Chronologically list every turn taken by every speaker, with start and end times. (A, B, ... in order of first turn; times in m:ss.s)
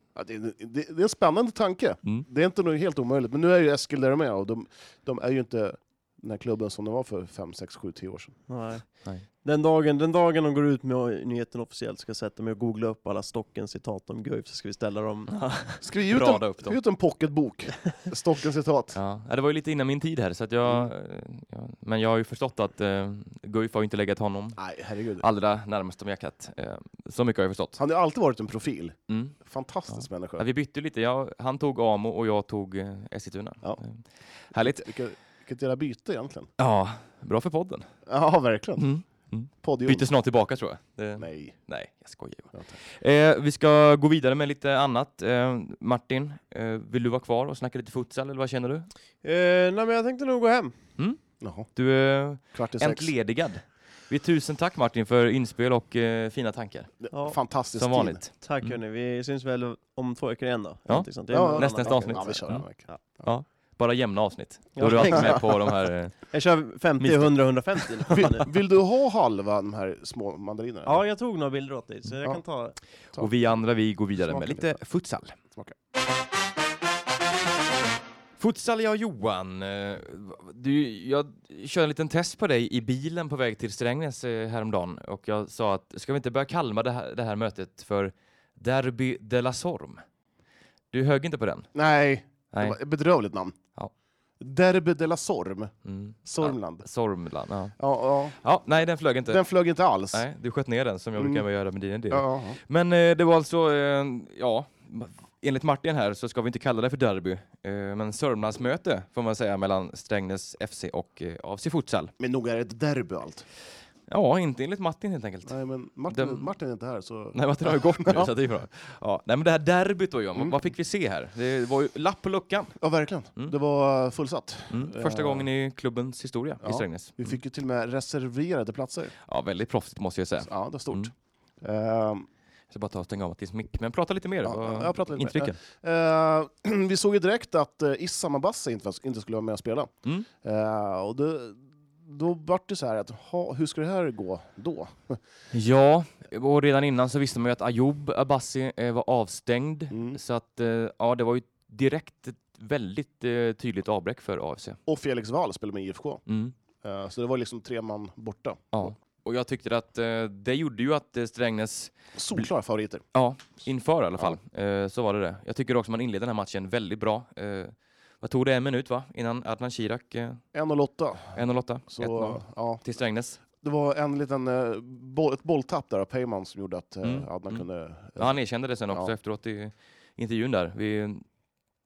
0:00.1-0:08.4 A
0:08.5-0:15.3 B
0:15.3-0:16.8 C
0:15.8-0:19.0 A
0:18.9-0:24.6 C
0:24.6-0:25.2 A
0:25.2-0:27.8 C
0:27.8-0:30.4 A
0:29.1-0:29.4 C
0:29.9-0:34.8 C
0:34.6-0:36.5 A
0:36.6-0:37.9 C
0:38.1-0:38.9 A
0:38.8-0:48.9 C
0:39.6-0:40.1 A
0:41.2-0:41.6 A
0:49.2-0:50.7 B
0:51.4-0:51.7 A
0:51.7-0:56.9 C
0:52.5-0:53.1 A
0:57.0-0:58.2 A
0:57.1-0:57.4 B
0:57.7-0:58.8 C
0:58.4-1:03.0 B
1:00.9-1:06.3 C
1:01.3-1:03.3 A
1:04.8-1:05.5 B
1:06.3-1:08.4 B
1:07.0-1:07.3 C
1:08.1-1:11.0 A
1:10.8-1:12.8 B
1:13.2-1:15.4 C
1:14.2-1:14.7 A
1:18.4-1:30.0 C
1:30.9-1:31.7 C
1:31.7-1:33.6 A
1:32.5-1:32.8 C
1:34.4-1:35.7 A
1:35.8-1:37.8 C
1:36.2-1:36.8 A
1:37.8-1:38.4 A
1:38.4-1:39.4 C
1:39.3-1:40.2 A
1:40.1-1:52.1 C
1:41.2-1:41.4 A
1:42.1-1:42.6 A
1:52.2-1:53.4 A
1:54.1-1:55.6 C
1:55.4-1:58.3 A
1:56.1-1:56.5 C
1:57.3-2:02.7 C
2:02.8-2:05.5 A
2:04.7-2:07.4 C
2:06.6-2:09.1 A
2:09.3-2:11.1 C
2:10.4-2:12.3 A
2:12.7-2:15.6 C
2:14.4-2:19.9 A
2:20.4-2:25.2 A
2:25.5-2:34.8 C
2:29.9-2:30.2 A
2:34.9-2:36.2 A
2:36.3-2:36.5 C
2:36.8-2:38.9 A
2:38.7-2:42.5 C
2:42.1-2:43.0 A
2:43.1-2:50.4 C
2:50.5-2:51.4 A
2:51.3-2:53.4 C
2:51.9-2:52.8 A
2:53.6-2:58.4 A
2:57.0-2:57.6 C
2:58.2-3:01.2 C